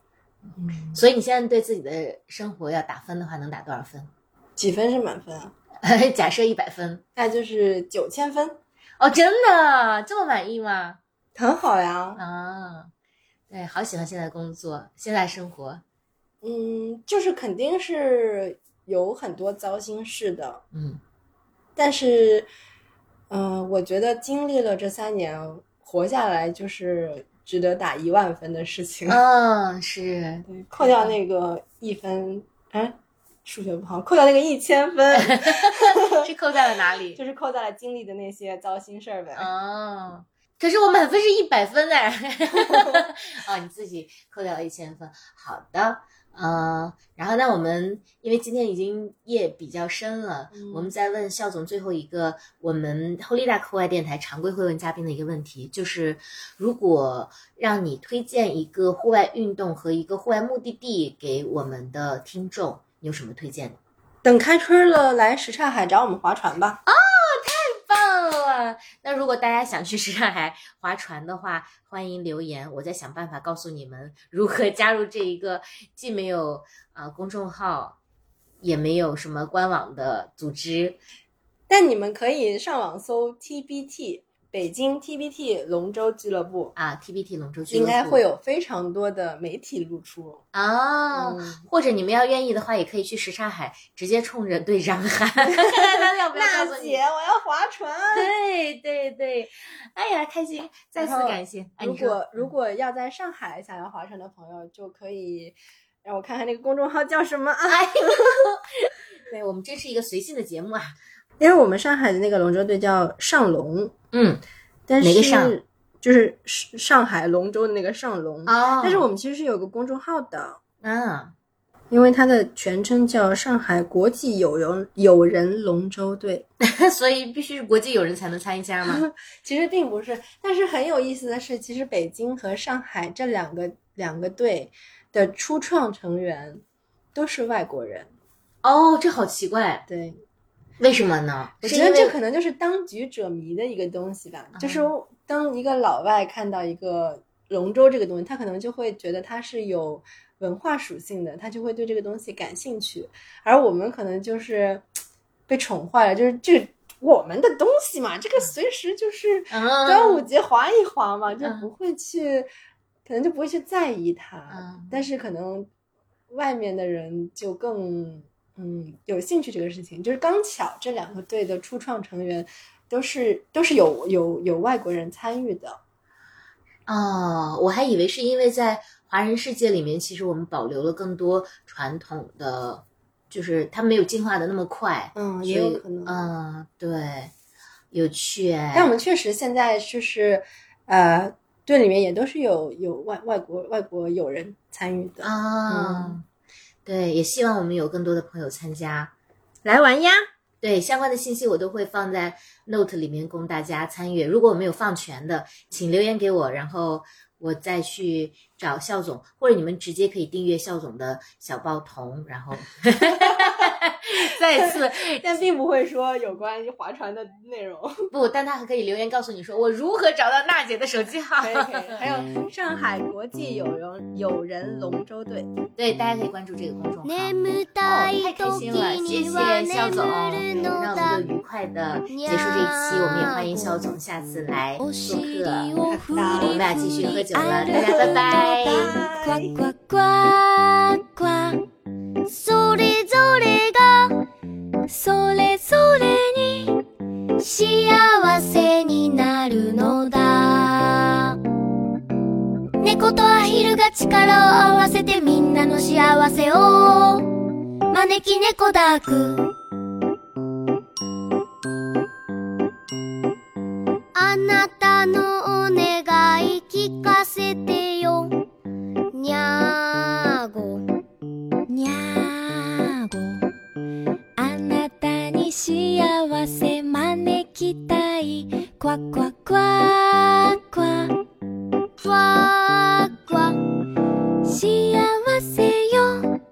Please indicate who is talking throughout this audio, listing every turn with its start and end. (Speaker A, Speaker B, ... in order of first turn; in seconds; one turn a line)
Speaker A: 0.6-1.0
Speaker B: 0.9-4.1
Speaker A: 4.6-5.5
Speaker B: 5.8-7.0
Speaker A: 7.2-8.6
Speaker B: 9.0-11.0
Speaker A: 11.3-12.2
Speaker B: 12.2-12.9
Speaker B: 13.5-15.8
Speaker A: 16.4-20.6
Speaker B: 20.7-21.0
Speaker A: 21.8-22.5
Speaker A: 23.3-29.2
Speaker B: 29.1-31.1
Speaker A: 30.4-36.3
Speaker B: 35.1-37.2
Speaker A: 37.1-39.5
Speaker B: 39.3-63.8
Speaker A: 42.5-43.0
Speaker A: 50.5-50.9
Speaker A: 64.2-66.8
Speaker B: 66.8-78.0
Speaker B: 78.6-81.0
Speaker A: 81.7-86.7
Speaker B: 86.8-88.2
Speaker A: 87.7-90.4
Speaker B: 90.5-97.0
Speaker A: 91.1-91.7
Speaker A: 95.4-98.3
Speaker B: 98.1-102.5
Speaker A: 101.0-108.4
Speaker B: 107.7-110.9
Speaker A: 111.4-113.9
Speaker B: 114.1-114.4
Speaker A: 114.9-120.6
Speaker B: 115.0-115.6
Speaker B: 118.5-119.0
Speaker B: 120.8-121.3
Speaker A: 121.9-126.5
Speaker B: 126.6-129.0
Speaker A: 128.9-136.6
Speaker A: 137.1-138.1
Speaker B: 138.6-139.8
Speaker A: 139.9-140.2
Speaker B: 140.8-142.1
Speaker A: 141.6-154.8
Speaker B: 144.6-144.9
Speaker A: 155.5-162.5
Speaker B: 159.5-160.3
Speaker B: 161.4-161.7
Speaker A: 163.1-165.7
Speaker B: 164.5-165.0
Speaker A: 166.3-175.8
Speaker B: 176.9-187.3
Speaker A: 185.1-186.2
Speaker B: 187.9-188.9
Speaker A: 188.7-196.2
Speaker B: 195.2-196.2
Speaker B: 196.8-199.1
Speaker A: 199.6-200.2
Speaker B: 200.6-215.5
Speaker A: 213.0-218.1
Speaker B: 218.1-221.9
Speaker A: 221.4-225.5
Speaker B: 225.8-235.7
Speaker C: 227.0-231.2
Speaker C: 232.1-233.8
Speaker C: 234.8-241.7
Speaker A: 235.7-236.6
Speaker B: 236.4-238.9
Speaker A: 237.7-239.6
Speaker C: 242.2-244.2
Speaker C: 244.9-246.8
Speaker C: 247.4-251.4
Speaker C: 252.8-257.3
Speaker C: 257.9-259.5
Speaker C: 264.1-268.4
Speaker C: 269.1-270.9
Speaker C: 271.7-273.5
Speaker C: 274.4-281.2
Speaker C: 282.0-283.6
Speaker C: 284.4-286.3